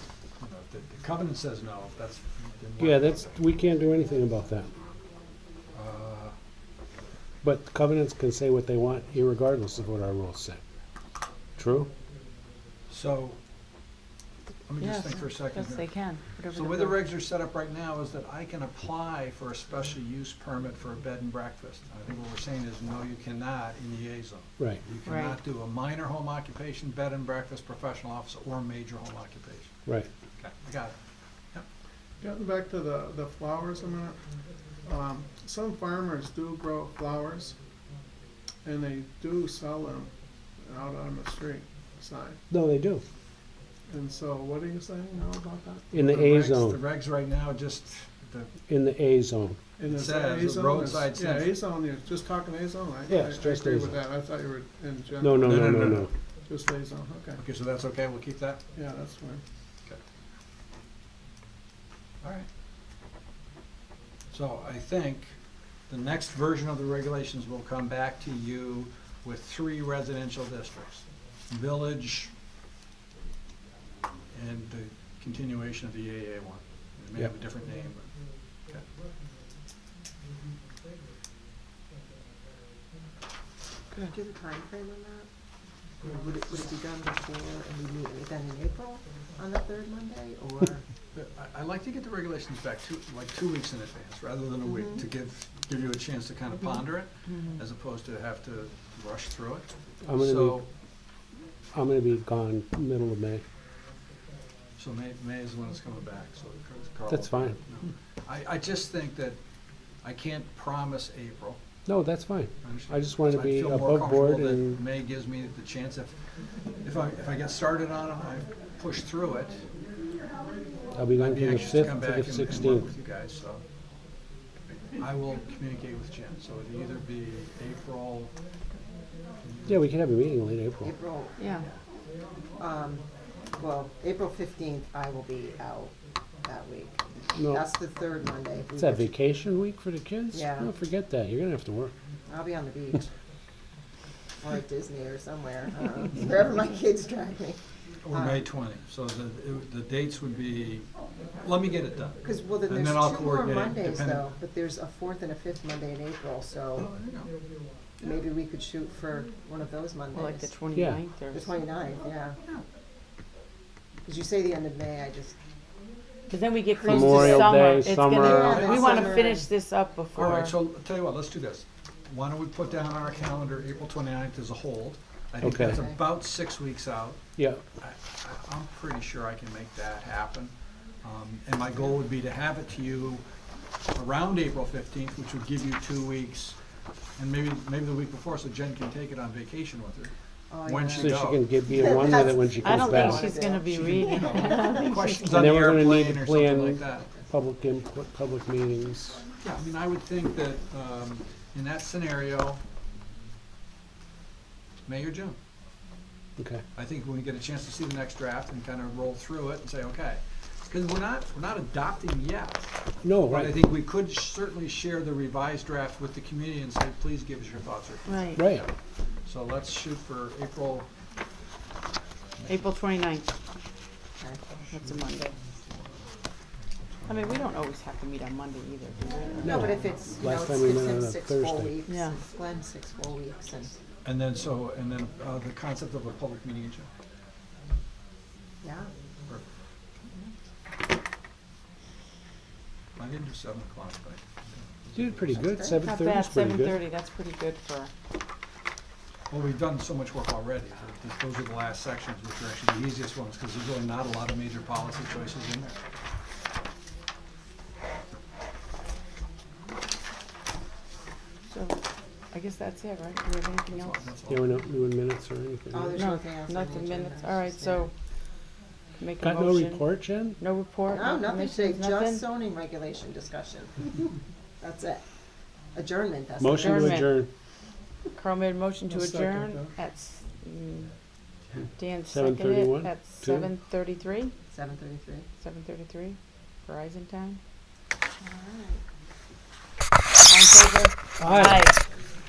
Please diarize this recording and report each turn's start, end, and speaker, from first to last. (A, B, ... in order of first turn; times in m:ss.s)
0:00.4-0:03.4 A
0:02.8-0:04.7 B
0:05.7-0:06.3 A
0:07.4-0:10.6 B
0:11.6-0:11.9 B
0:12.9-0:13.4 A
0:14.7-0:15.9 A
0:14.8-0:17.0 C
0:16.5-0:29.8 A
0:25.0-0:25.4 C
0:30.4-0:31.0 A
0:32.2-0:34.2 D
0:34.8-0:37.6 D
0:38.6-0:42.4 D
0:42.5-0:43.0 B
0:43.9-0:45.9 D
0:45.9-0:46.8 B
0:46.0-0:48.5 A
0:48.7-0:49.6 B
0:49.8-0:56.0 D
0:49.9-0:51.5 A
0:53.1-0:54.0 B
0:55.2-0:56.1 B
0:55.4-0:56.1 A
0:56.5-0:57.4 D
0:57.4-0:58.6 A
0:58.7-0:59.4 D
1:02.2-1:02.5 A
1:04.3-1:05.4 A
1:05.9-1:12.3 A
1:14.3-1:18.1 A
1:24.0-1:25.3 E
1:26.0-1:30.8 E
1:31.1-1:40.7 A
1:34.6-1:35.1 E
1:40.0-1:40.6 B
1:41.7-1:43.4 B
1:44.8-1:49.4 A
1:47.1-1:47.6 B
1:50.0-1:51.6 A
1:51.9-1:54.8 B
1:52.6-1:56.2 A
1:56.8-1:59.6 A
2:01.0-2:02.9 B
2:01.2-2:03.6 A
2:05.0-2:08.3 A
2:09.7-2:10.9 B
2:10.8-2:11.4 E
2:11.4-2:11.6 C
2:12.6-2:13.0 E
2:13.6-2:19.1 E
2:17.4-2:17.7 B
2:18.8-2:21.9 B
2:20.3-2:20.7 E
2:22.3-2:23.1 E
2:24.4-2:28.5 E
2:28.0-2:34.3 A
2:32.2-2:36.9 E
2:36.8-2:37.3 A
2:38.0-2:40.6 E
2:40.1-2:41.5 C
2:40.8-2:41.0 B
2:41.3-2:42.4 E
2:44.1-2:45.4 E
2:46.3-2:50.5 C
2:46.8-2:49.5 E
2:46.8-2:48.7 B
2:48.3-2:49.2 A
2:50.2-2:57.2 A
2:55.4-2:55.9 B
2:55.5-2:56.0 E
2:57.4-2:57.6 B
2:57.8-3:03.2 A
3:03.9-3:06.6 A
3:07.2-3:10.1 A
3:10.5-3:15.0 E
3:10.6-3:11.4 A
3:10.9-3:13.3 B
3:12.6-3:15.5 C
3:14.1-3:17.1 A
3:15.3-3:19.2 B
3:19.4-3:22.6 A
3:24.9-3:25.4 A
3:26.4-3:26.6 B
3:26.8-3:32.6 A
3:33.0-3:33.6 B
3:33.3-3:38.7 A
3:38.1-3:38.4 C
3:38.4-3:38.6 B
3:39.2-3:40.9 A
3:42.5-3:43.3 C
3:44.7-3:45.3 C
3:47.1-3:49.6 C
3:49.4-3:51.8 B
3:49.4-3:53.8 E
3:51.9-3:52.2 C
3:54.0-3:56.9 A
3:58.6-3:58.9 E
4:03.0-4:05.5 A
4:04.9-4:06.8 B
4:05.4-4:05.8 E
4:05.8-4:07.9 C
4:09.3-4:15.7 A
4:21.5-4:21.8 C
4:22.3-4:24.1 C
4:23.7-4:24.6 A
4:24.3-4:26.0 B
4:25.7-4:27.9 E
4:26.0-4:27.9 C
4:29.0-4:32.2 C
4:29.2-4:30.4 B
4:30.9-4:35.0 E
4:35.7-4:37.1 E
4:36.4-4:37.3 B
4:36.6-4:37.2 C
4:38.2-4:40.9 C
4:38.9-4:39.7 D
4:41.8-4:44.3 C
4:42.1-4:43.5 B
4:44.5-4:45.3 E
4:45.4-4:47.4 C
4:48.2-4:48.8 C
4:50.2-4:51.8 C
4:51.2-4:51.8 B